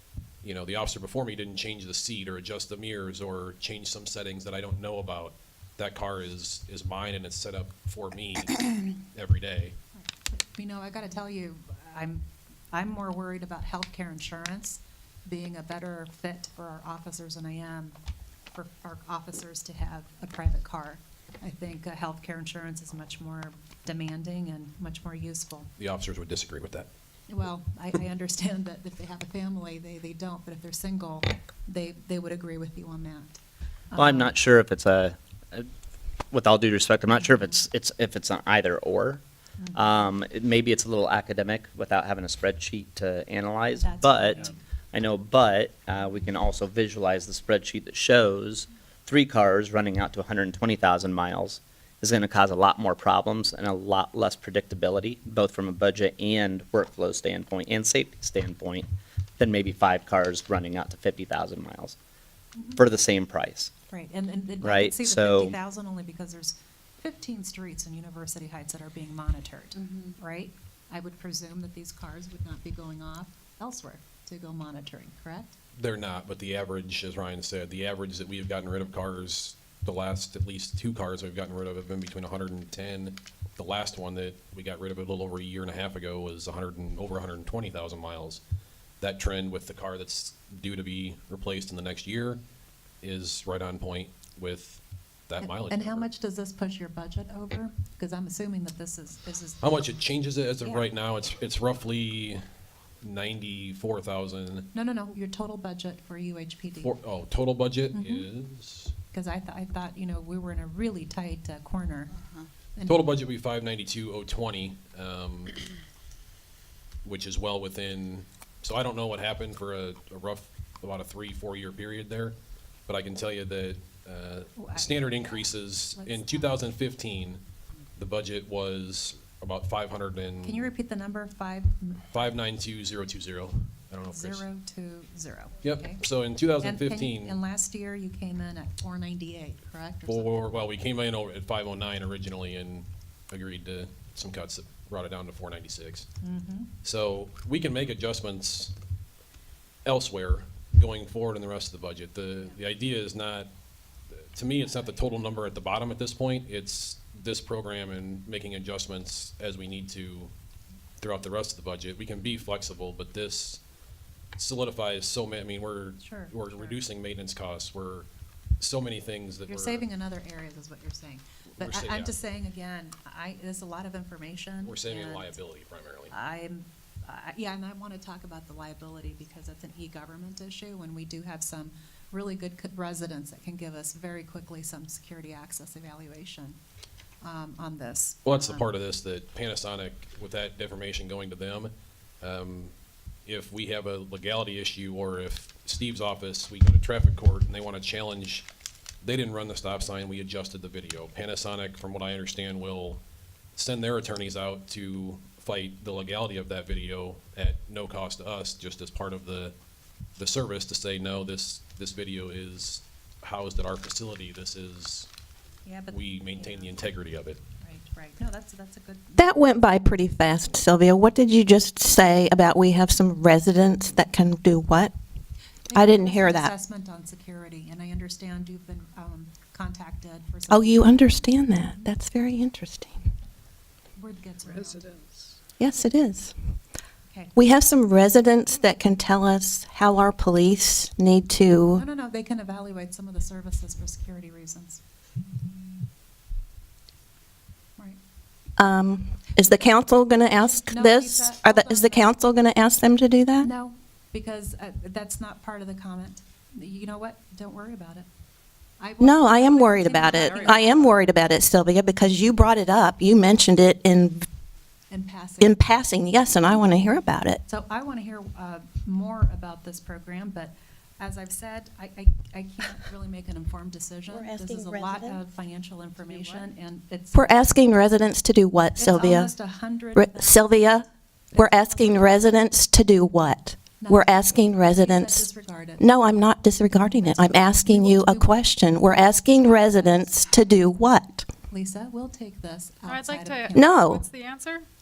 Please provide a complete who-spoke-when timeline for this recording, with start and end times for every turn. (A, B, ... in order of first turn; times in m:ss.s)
0:00.4-0:09.8 A
0:10.0-0:18.0 B
0:18.5-0:25.7 B
0:25.8-0:26.9 A
0:27.3-0:33.4 B
0:33.9-0:34.4 B
0:34.0-0:35.7 C
0:36.3-0:39.2 C
0:37.2-0:37.6 B
0:39.6-0:40.1 B
0:39.7-1:02.0 C
0:43.8-0:44.6 B
1:02.6-1:02.8 B
1:02.8-1:03.7 C
1:03.9-1:15.6 B
1:04.6-1:05.6 C
1:15.8-1:28.4 A
1:29.0-1:32.4 A
1:33.0-1:36.1 A
1:35.4-1:39.7 B
1:39.6-1:42.4 A
1:43.0-1:44.7 A
1:44.7-1:46.9 B
1:46.8-1:48.9 A
1:47.9-1:48.3 B
1:49.1-1:52.1 B
1:52.8-1:53.2 B
1:52.9-1:55.6 A
1:57.0-2:02.4 A
2:02.9-2:07.4 A
2:04.6-2:05.4 B
2:05.9-2:06.6 B
2:08.0-2:10.7 A
2:10.4-2:12.0 B
2:12.1-2:14.4 A
2:14.1-2:16.0 B
2:15.6-2:17.4 A
2:16.6-2:20.4 B
2:20.1-2:26.1 A
2:26.2-2:26.7 B
2:26.8-2:28.7 A
2:29.8-2:33.5 A
2:34.3-2:40.3 A
2:41.0-2:43.6 A
2:44.4-2:48.1 A
2:46.0-2:46.8 B
2:48.6-2:49.9 A
2:49.5-2:55.4 B
2:51.5-2:52.2 A
2:54.6-2:56.1 A
2:56.1-3:06.6 B
3:07.2-3:08.7 B
3:08.2-3:12.7 A
3:13.3-3:18.5 A
3:19.0-3:23.0 A
3:23.6-3:29.6 A
3:30.2-3:35.1 A
3:35.6-3:36.8 B
3:35.9-3:37.4 A
3:37.6-3:39.2 B
3:39.2-3:44.9 D
3:45.7-3:51.8 B
3:45.7-3:46.5 D
3:50.5-3:53.1 D
3:54.0-3:54.9 B
3:54.4-3:55.4 E
3:55.6-3:56.3 D
3:57.1-3:57.4 B
3:57.4-4:01.8 D
4:01.8-4:04.8 B
4:05.3-4:05.6 B
4:08.6-4:13.5 D
4:10.4-4:12.1 B
4:13.4-4:18.1 B
4:18.8-4:20.8 B
4:19.0-4:24.3 D
4:20.0-4:20.9 E
4:24.9-4:25.7 B
4:25.4-4:27.4 D
4:27.5-4:37.6 B
4:34.1-4:35.2 D
4:36.0-4:36.5 E
4:37.1-4:39.3 D
4:38.8-4:40.6 B
4:40.0-4:45.3 D
4:41.3-4:42.2 B
4:43.8-4:45.8 B
4:45.8-4:51.3 D
4:46.8-4:50.4 B
4:51.5-4:54.0 B
4:52.9-4:54.6 E
4:53.5-4:54.0 D